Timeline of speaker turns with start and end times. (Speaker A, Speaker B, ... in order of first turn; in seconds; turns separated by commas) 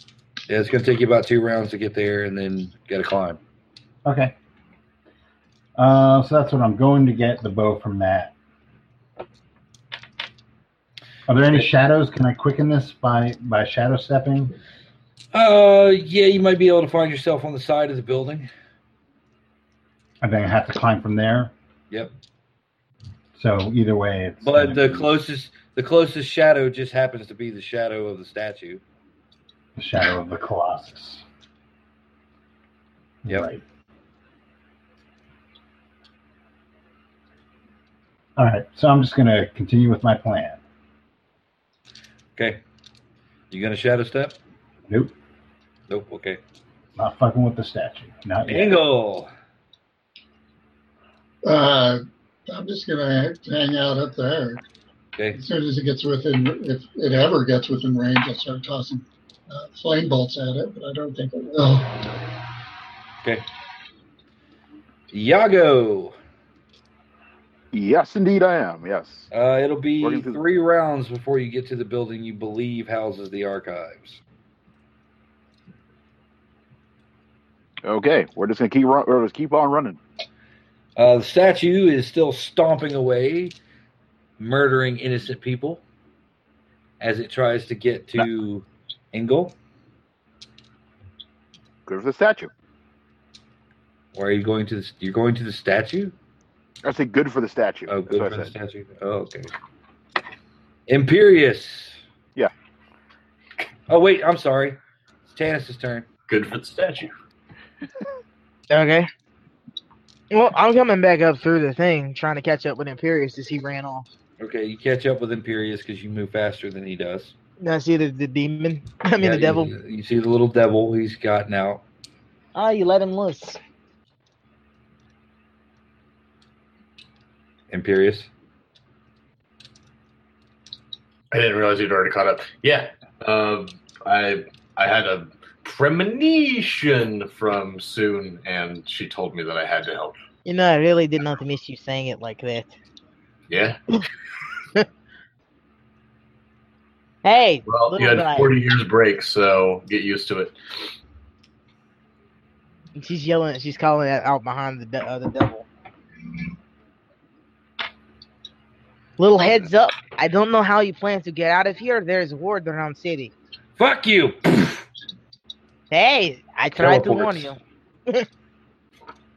Speaker A: 0.5-3.4, Speaker B: 4.0-4.3, Speaker B: 5.8-8.3, Speaker B: 11.3-14.6, Speaker A: 15.3-18.5, Speaker B: 20.2-21.5, Speaker B: 23.4-25.1, Speaker A: 24.4-28.8, Speaker B: 29.8-31.2, Speaker B: 33.2-33.6, Speaker B: 38.4-40.6, Speaker A: 42.4-42.6, Speaker A: 43.5-44.4, Speaker B: 44.9-45.1, Speaker A: 45.9-46.4, Speaker B: 47.0-48.8, Speaker A: 48.5-49.3, Speaker C: 51.5-54.6, Speaker C: 55.3-62.2, Speaker A: 65.1-66.2, Speaker D: 67.7-69.3, Speaker A: 69.3-74.2, Speaker D: 70.0-70.4, Speaker D: 77.8-80.0, Speaker A: 81.0-83.5, Speaker A: 84.4-85.8, Speaker A: 87.0-89.5, Speaker D: 91.9-92.5, Speaker A: 94.1-96.1, Speaker D: 96.8-98.5, Speaker A: 97.9-99.5, Speaker A: 100.9-102.0, Speaker A: 103.9-106.1, Speaker E: 106.3-107.1, Speaker F: 108.7-109.1, Speaker F: 110.3-114.1, Speaker A: 114.4-117.3, Speaker F: 117.6-119.7, Speaker A: 119.2-121.8, Speaker F: 122.5-123.6, Speaker A: 127.7-128.3, Speaker E: 131.3-140.2, Speaker F: 140.5-142.8, Speaker E: 143.5-143.8, Speaker F: 147.2-148.5, Speaker E: 147.7-150.6, Speaker F: 153.0-155.7, Speaker F: 159.2-163.3, Speaker A: 163.8-164.9, Speaker F: 165.9-168.3, Speaker A: 166.8-167.5